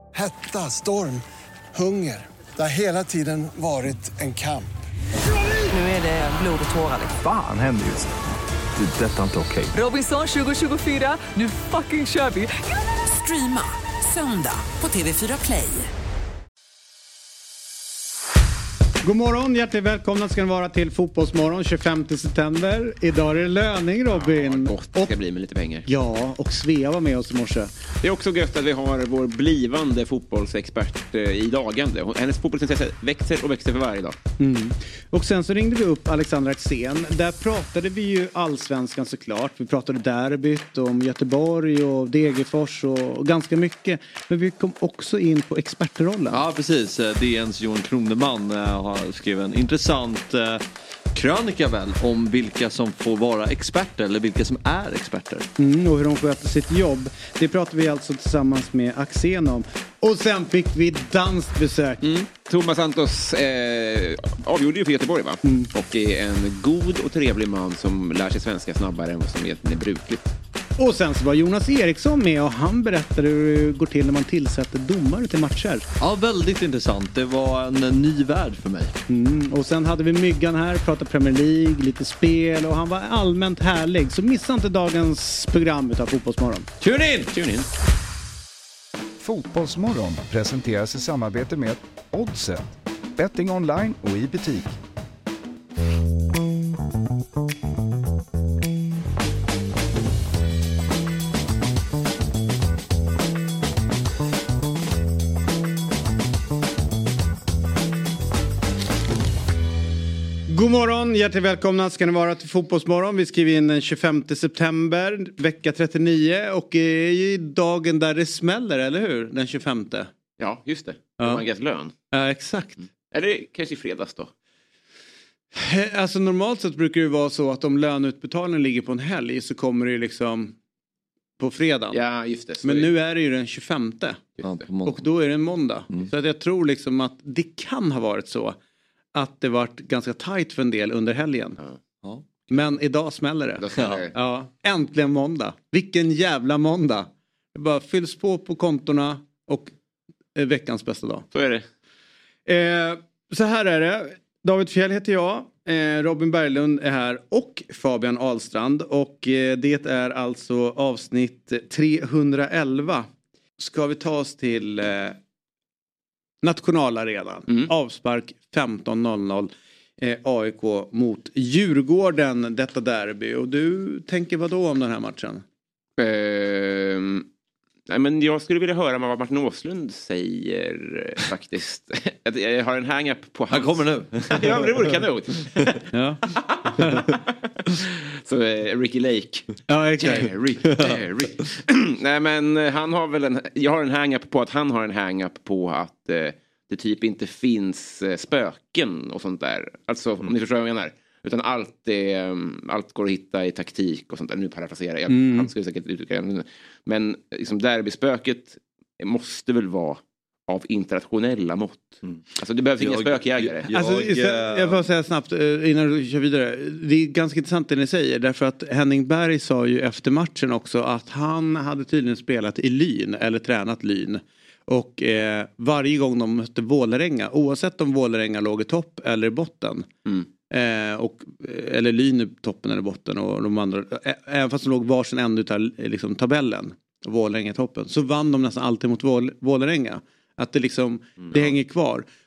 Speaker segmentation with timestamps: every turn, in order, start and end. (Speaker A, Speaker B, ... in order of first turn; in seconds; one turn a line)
Speaker A: 0.1-4.7
Speaker B: 5.9-6.8
Speaker C: 9.2-9.4
Speaker B: 9.7-15.8
Speaker D: 19.0-25.1
Speaker E: 24.1-25.9
Speaker D: 25.8-27.7
Speaker E: 28.0-34.1
Speaker D: 34.4-46.4
Speaker F: 46.3-55.5
Speaker D: 55.6-62.1
Speaker E: 62.0-70.3
Speaker D: 65.4-65.7
Speaker D: 70.8-75.8
Speaker F: 76.0-79.0
Speaker D: 79.1-86.7
Speaker E: 86.8-87.7
Speaker C: 89.2-94.8
Speaker D: 110.5-120.1
Speaker E: 120.4-121.9
Speaker D: 122.1-122.8
Speaker E: 123.1-124.3
Speaker D: 125.5-130.5
Speaker D: 131.4-132.0
Speaker E: 131.9-132.9
Speaker D: 132.6-134.2
Speaker F: 134.4-135.0
Speaker D: 134.8-138.6
Speaker D: 139.1-141.6
Speaker D: 142.5-149.7
Speaker E: 143.6-144.1
Speaker D: 150.3-151.3
Speaker E: 151.3-151.6
Speaker D: 152.5-165.2
Speaker D: 166.4-175.4
Speaker E: 176.0-177.2
Speaker E: 177.9-185.8
Speaker F: 183.5-184.6
Speaker D: 185.9-186.2
Speaker D: 186.8-187.0
Speaker E: 188.2-213.7
Speaker D: 189.7-190.3
Speaker D: 205.1-205.5
Speaker F: 212.8-214.8
Speaker D: 213.7-229.9
Speaker D: 230.5-242.1